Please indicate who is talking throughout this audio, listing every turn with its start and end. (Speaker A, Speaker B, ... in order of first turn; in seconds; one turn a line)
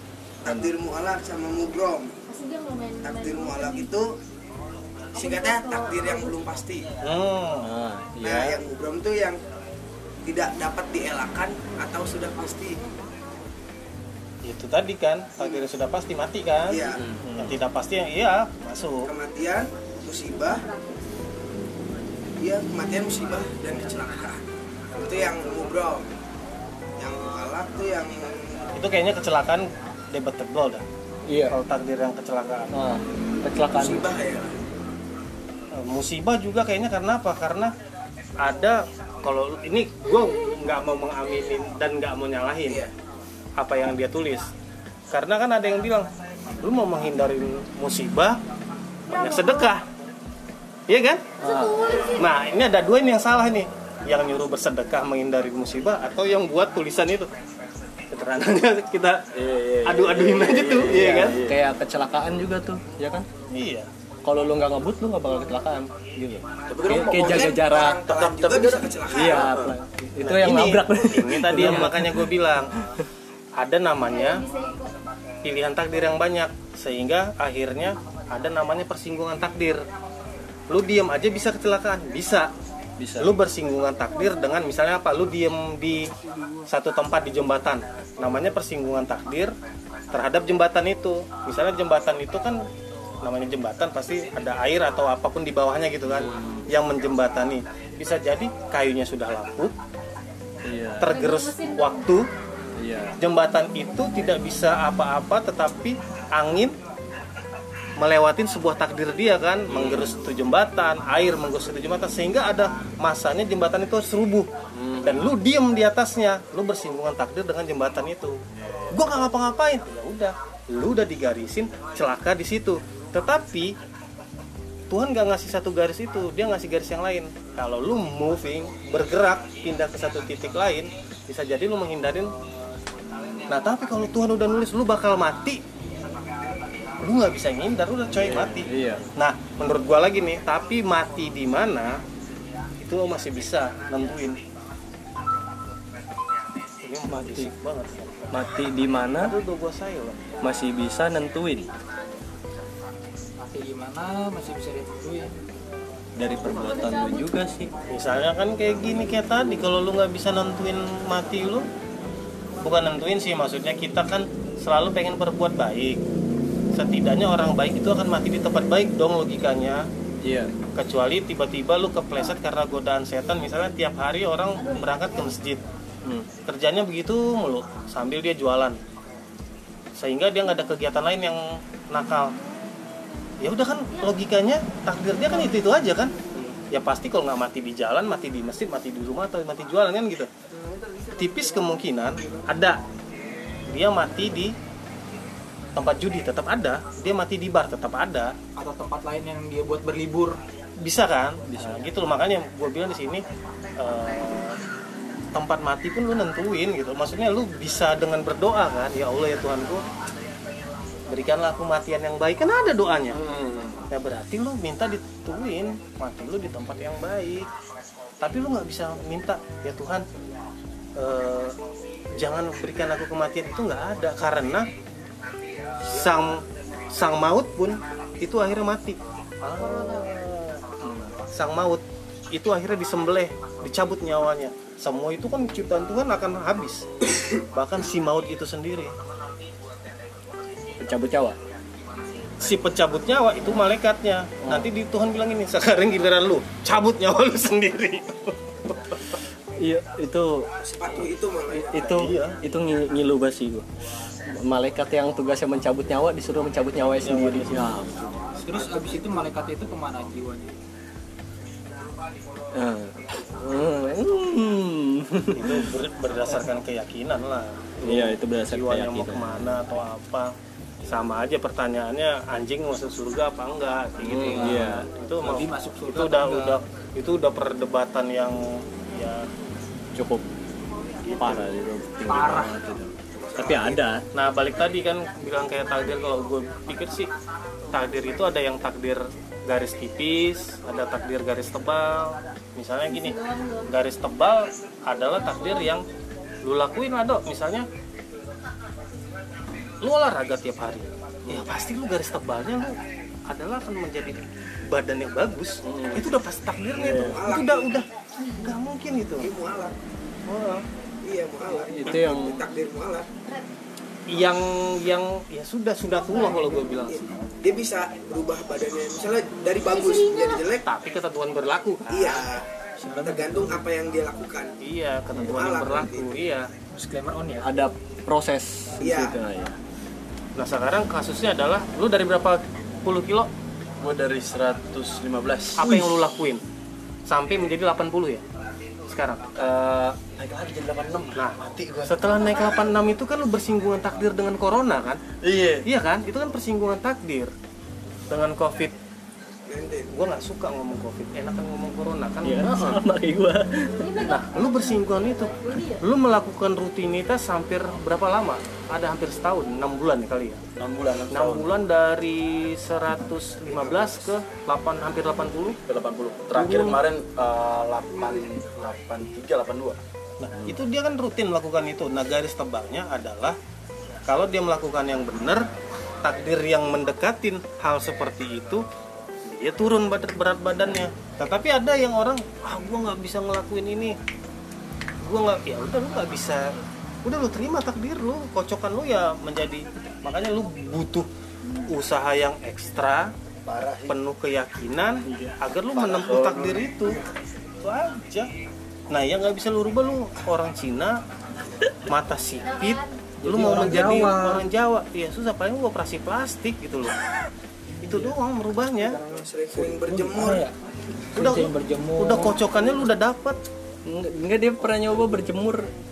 Speaker A: 0.4-2.1
Speaker B: 2.3-3.9
Speaker A: 3.0-4.1
Speaker B: 5.1-6.4
Speaker A: 5.1-6.9
Speaker C: 7.0-7.7
Speaker D: 7.6-8.6
Speaker A: 8.2-9.4
Speaker A: 10.2-12.8
Speaker C: 14.4-19.1
Speaker A: 16.7-17.1
Speaker D: 17.2-17.6
Speaker A: 19.1-20.6
Speaker B: 20.4-21.1
Speaker A: 22.4-24.4
Speaker A: 24.9-26.1
Speaker A: 27.0-28.6
Speaker C: 28.8-30.8
Speaker D: 31.3-31.6
Speaker C: 31.5-32.7
Speaker D: 32.7-34.0
Speaker A: 33.7-34.6
Speaker C: 35.7-37.7
Speaker C: 38.4-42.9
Speaker A: 42.6-42.9
Speaker C: 43.6-44.5
Speaker C: 45.1-48.4
Speaker B: 49.1-49.7
Speaker C: 49.1-49.8
Speaker C: 50.9-51.4
Speaker D: 51.4-51.9
Speaker B: 51.4-52.3
Speaker C: 52.1-57.3
Speaker C: 58.1-59.3
Speaker E: 59.4-61.6
Speaker C: 59.8-61.4
Speaker D: 60.7-63.2
Speaker C: 63.5-63.9
Speaker D: 64.2-68.0
Speaker E: 66.7-69.7
Speaker A: 66.9-69.6
Speaker D: 69.1-73.0
Speaker C: 70.2-72.7
Speaker C: 73.6-74.4
Speaker B: 74.0-74.9
Speaker C: 75.4-79.8
Speaker C: 80.7-82.5
Speaker D: 83.0-83.3
Speaker C: 83.2-86.1
Speaker B: 84.1-84.6
Speaker C: 86.7-89.5
Speaker C: 90.1-92.6
Speaker C: 93.2-99.7
Speaker D: 96.1-96.7
Speaker D: 100.6-101.1
Speaker C: 101.0-102.3
Speaker B: 101.0-102.2
Speaker D: 102.8-103.2
Speaker C: 103.2-106.8
Speaker C: 108.0-114.5
Speaker D: 109.7-110.2
Speaker C: 115.0-118.4
Speaker E: 118.6-119.0
Speaker C: 118.9-123.7
Speaker C: 124.9-132.3
Speaker C: 133.5-135.6
Speaker C: 137.0-141.9
Speaker D: 138.2-139.1
Speaker C: 142.8-144.4
Speaker C: 146.8-148.3
Speaker D: 147.1-147.5
Speaker D: 148.3-149.3
Speaker C: 149.2-150.2
Speaker D: 150.4-151.7
Speaker F: 153.4-155.3
Speaker D: 156.2-157.7
Speaker B: 156.4-157.3
Speaker C: 157.9-161.7
Speaker C: 162.6-166.0
Speaker C: 166.7-169.8
Speaker D: 170.2-170.5
Speaker C: 170.8-175.6
Speaker B: 174.6-175.3
Speaker C: 176.4-178.8
Speaker C: 180.0-182.3
Speaker C: 183.4-190.3
Speaker C: 191.1-192.8
Speaker C: 193.7-194.5
Speaker C: 195.7-198.3
Speaker F: 198.6-200.4
Speaker C: 200.8-203.2
Speaker D: 201.5-201.8
Speaker C: 203.8-204.6
Speaker C: 205.3-209.8
Speaker C: 211.1-213.2
Speaker E: 213.1-213.9
Speaker C: 213.9-217.5
Speaker C: 218.2-220.0
Speaker C: 220.9-221.6
Speaker C: 222.2-224.7
Speaker C: 225.9-230.7
Speaker B: 229.6-230.1
Speaker D: 230.8-231.1
Speaker C: 231.3-236.8
Speaker C: 237.5-238.9
Speaker D: 240.8-241.4
Speaker C: 242.4-249.2
Speaker D: 244.4-244.7
Speaker D: 249.6-250.5
Speaker A: 250.6-251.8
Speaker D: 251.5-253.7
Speaker C: 251.8-252.4
Speaker D: 254.3-258.2
Speaker C: 257.0-257.9
Speaker F: 258.4-260.5
Speaker D: 262.5-265.7
Speaker C: 265.3-270.3
Speaker D: 267.8-269.6
Speaker C: 270.9-279.3
Speaker D: 274.0-274.9
Speaker F: 274.1-276.6
Speaker D: 279.9-280.2
Speaker E: 281.0-281.6
Speaker D: 281.1-284.0
Speaker F: 282.1-282.6
Speaker A: 283.2-283.8
Speaker C: 284.1-287.1
Speaker C: 287.7-295.9
Speaker B: 292.9-293.7
Speaker B: 295.2-295.7
Speaker C: 296.4-297.7
Speaker C: 299.8-309.3
Speaker D: 305.6-306.1
Speaker D: 306.8-307.2
Speaker A: 307.0-307.8
Speaker A: 309.2-309.7
Speaker C: 310.3-310.6
Speaker A: 311.0-313.1
Speaker D: 311.7-312.4
Speaker C: 314.1-317.0
Speaker A: 316.9-320.6
Speaker B: 319.6-320.5
Speaker C: 320.6-322.3
Speaker A: 321.9-324.5
Speaker F: 322.8-323.6
Speaker C: 324.6-326.5
Speaker A: 325.2-326.2
Speaker F: 326.7-327.5
Speaker D: 327.4-329.6
Speaker A: 328.8-329.1
Speaker C: 330.4-333.3
Speaker E: 333.8-335.7
Speaker C: 335.6-336.4
Speaker C: 337.1-338.2
Speaker C: 338.9-339.3
Speaker E: 339.4-341.9
Speaker C: 341.1-345.0
Speaker E: 345.2-345.6
Speaker C: 345.6-347.3
Speaker C: 348.1-348.7
Speaker A: 349.5-349.9
Speaker C: 349.9-352.5
Speaker D: 352.2-353.9
Speaker E: 352.4-352.8
Speaker B: 353.7-355.8
Speaker C: 354.0-360.4
Speaker E: 360.6-361.5
Speaker C: 361.1-365.6
Speaker E: 363.6-364.0
Speaker E: 365.7-369.8
Speaker C: 366.3-366.8
Speaker C: 370.2-373.4
Speaker C: 374.1-375.4
Speaker C: 376.0-378.6
Speaker C: 379.2-383.9
Speaker C: 385.0-386.5
Speaker C: 387.0-391.1
Speaker C: 391.6-393.1
Speaker E: 393.4-393.9
Speaker C: 393.9-397.0
Speaker D: 395.0-395.4
Speaker E: 395.7-396.7
Speaker C: 397.6-398.3
Speaker C: 398.9-401.0
Speaker C: 401.9-407.0
Speaker B: 402.4-403.0
Speaker F: 403.2-404.4
Speaker C: 407.8-409.0
Speaker F: 407.8-408.1
Speaker A: 409.0-410.4
Speaker F: 409.2-410.5
Speaker F: 411.1-412.4
Speaker C: 411.1-413.4
Speaker D: 413.9-415.7